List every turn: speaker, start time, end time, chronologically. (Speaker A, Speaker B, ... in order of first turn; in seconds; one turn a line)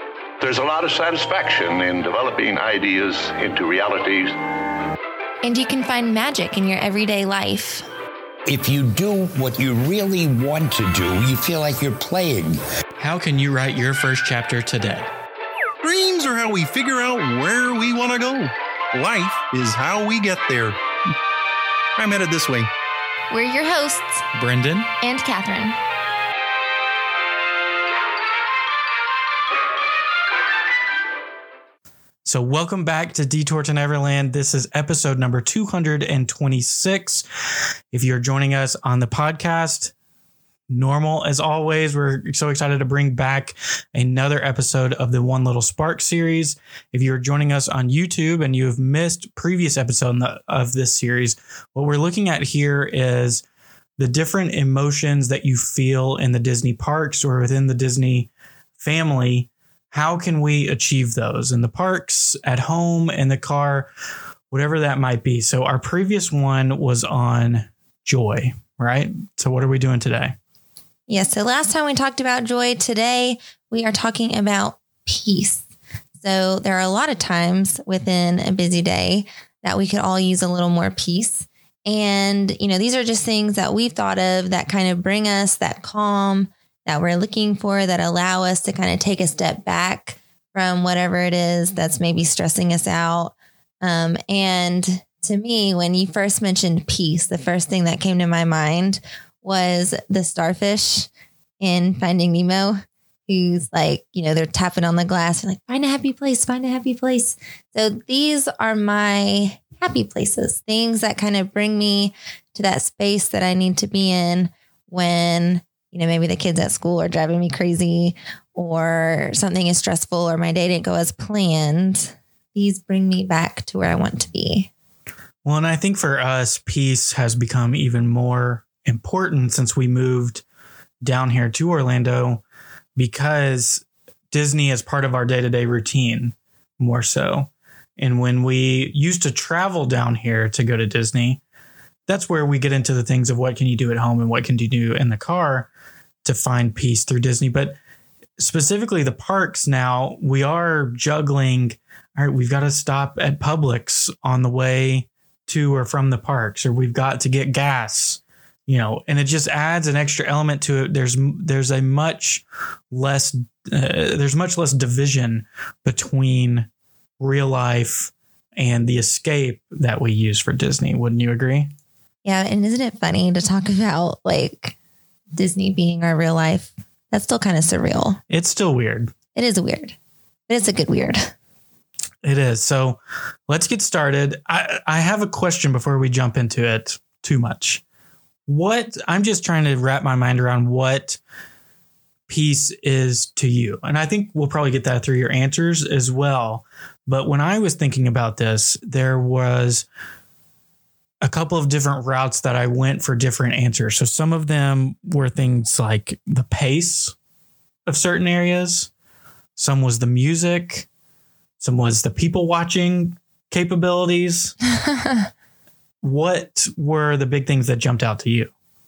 Speaker A: 0.4-4.4
Speaker B: 5.4-7.9
Speaker C: 8.5-12.6
Speaker D: 13.0-15.1
Speaker E: 15.8-20.8
Speaker E: 22.0-22.7
Speaker B: 23.3-24.2
Speaker D: 24.3-24.9
Speaker B: 25.0-25.8
Speaker D: 32.2-37.2
Speaker D: 37.9-39.9
Speaker D: 40.7-53.4
Speaker D: 54.0-63.9
Speaker D: 64.5-70.3
Speaker B: 71.1-75.6
Speaker B: 76.2-101.1
Speaker B: 101.6-124.7
Speaker D: 125.4-130.4
Speaker D: 131.0-132.4
Speaker D: 133.0-141.4
Speaker D: 142.1-145.7
Speaker D: 146.2-147.8
Speaker D: 148.4-166.7
Speaker D: 167.2-171.7
Speaker B: 172.2-174.8
Speaker B: 175.3-178.2
Speaker D: 178.3-179.1
Speaker B: 179.3-179.9
Speaker B: 180.5-181.3
Speaker D: 182.2-187.8
Speaker D: 188.5-191.2
Speaker D: 192.3-199.9
Speaker D: 201.2-207.1
Speaker D: 207.9-208.9
Speaker D: 209.6-210.9
Speaker D: 211.6-214.6
Speaker D: 216.0-218.5